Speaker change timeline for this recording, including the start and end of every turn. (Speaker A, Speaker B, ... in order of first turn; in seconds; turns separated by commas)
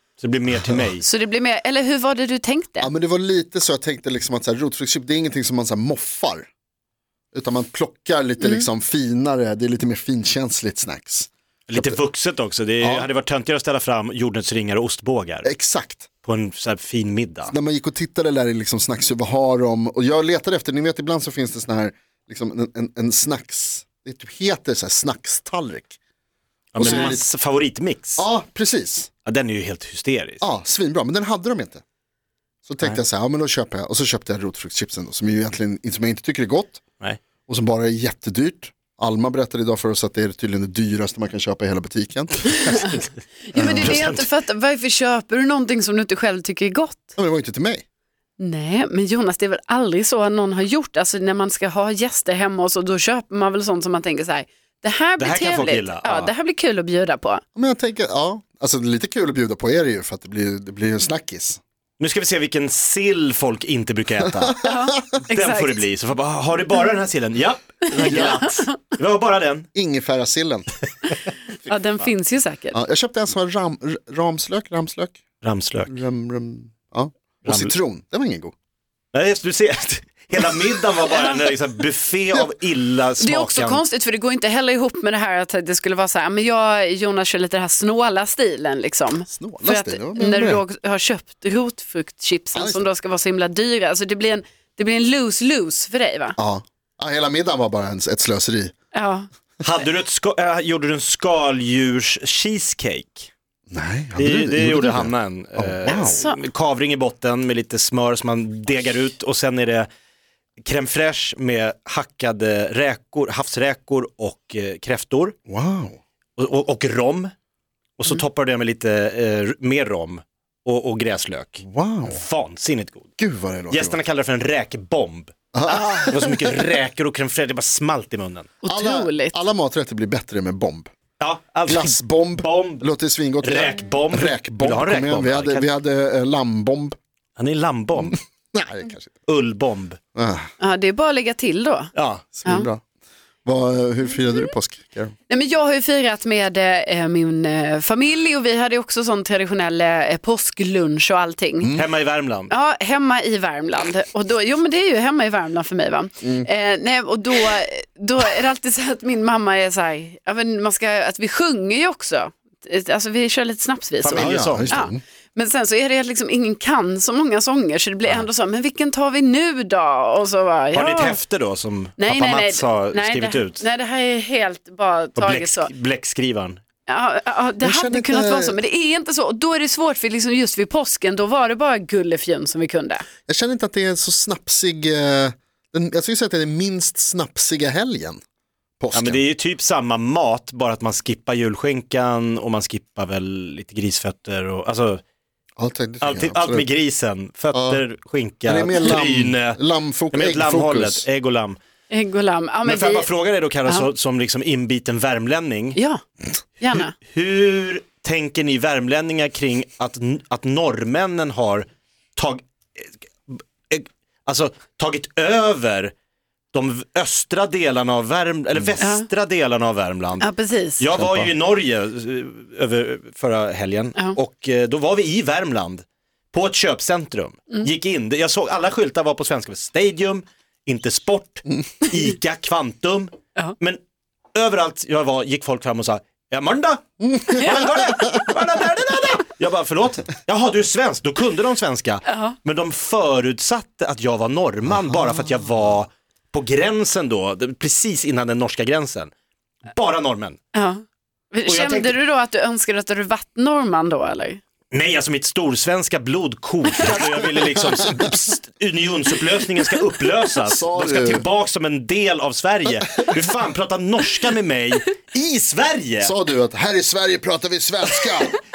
Speaker A: 0.2-1.0, Speaker B: 1.0-2.9, Speaker C: 2.8-6.5, Speaker C: 7.3-12.0, Speaker B: 8.4-8.7, Speaker A: 11.7-15.5, Speaker C: 12.8-13.1, Speaker C: 15.4-16.1, Speaker A: 16.2-17.5, Speaker C: 17.5-26.0, Speaker A: 26.7-28.3, Speaker C: 26.8-27.2, Speaker B: 26.8-27.1, Speaker C: 28.2-29.1, Speaker A: 29.2-30.4, Speaker C: 30.4-31.8, Speaker C: 32.7-36.8, Speaker C: 37.5-42.9, Speaker B: 43.5-47.1, Speaker C: 43.5-44.2, Speaker A: 43.6-44.3, Speaker C: 47.2-47.8, Speaker B: 48.4-57.4, Speaker A: 55.2-56.3, Speaker C: 57.6-61.6, Speaker A: 62.0-64.6, Speaker C: 64.3-65.2, Speaker B: 64.6-65.8, Speaker A: 65.3-69.7, Speaker B: 68.0-68.7, Speaker C: 68.0-68.5, Speaker C: 69.7-70.7, Speaker B: 71.7-72.8, Speaker C: 72.7-75.2, Speaker A: 75.4-76.0, Speaker C: 75.9-78.5, Speaker A: 77.5-77.7, Speaker A: 79.1-83.8, Speaker B: 83.2-96.4, Speaker C: 89.3-90.6, Speaker C: 92.5-92.8, Speaker C: 96.4-98.7, Speaker B: 98.9-99.3, Speaker A: 99.6-103.3, Speaker C: 103.7-106.2, Speaker A: 104.2-109.9, Speaker B: 106.0-106.4, Speaker A: 110.6-115.4, Speaker C: 115.5-116.0, Speaker A: 116.4-117.3, Speaker A: 118.0-123.1, Speaker C: 121.6-122.2, Speaker C: 123.2-124.0, Speaker A: 123.7-128.5, Speaker C: 125.5-126.6, Speaker B: 128.6-129.4, Speaker C: 128.7-130.9, Speaker A: 131.2-132.9, Speaker C: 131.7-137.0, Speaker A: 133.4-135.7, Speaker A: 137.4-138.2, Speaker C: 138.0-139.2, Speaker A: 139.3-140.0, Speaker C: 140.2-140.5, Speaker B: 140.6-141.9, Speaker A: 141.9-142.3, Speaker C: 142.3-142.8, Speaker C: 143.4-145.1, Speaker B: 145.3-151.7, Speaker A: 151.7-152.5, Speaker B: 152.5-171.2, Speaker A: 164.0-164.9, Speaker C: 164.1-165.0, Speaker A: 170.7-173.6, Speaker B: 172.0-175.7, Speaker A: 175.2-176.6, Speaker B: 176.9-183.1, Speaker C: 177.6-178.6, Speaker C: 183.3-188.2, Speaker C: 188.8-189.2, Speaker A: 188.9-195.0, Speaker C: 195.6-196.7, Speaker A: 196.0-199.6, Speaker C: 197.5-197.8, Speaker C: 198.4-201.1, Speaker A: 200.1-201.6, Speaker B: 201.9-203.1, Speaker A: 202.7-205.8, Speaker B: 205.8-206.0, Speaker B: 206.6-206.9, Speaker A: 207.0-215.9, Speaker A: 216.5-220.3, Speaker B: 218.8-219.1, Speaker B: 220.2-220.9, Speaker A: 220.8-233.8, Speaker C: 221.0-221.3, Speaker A: 234.3-249.1, Speaker C: 237.0-238.3, Speaker B: 242.1-242.4, Speaker C: 244.7-245.5, Speaker A: 249.7-250.4, Speaker B: 250.5-254.4, Speaker A: 251.4-252.0, Speaker A: 254.7-266.1, Speaker C: 260.4-261.2, Speaker C: 266.0-268.4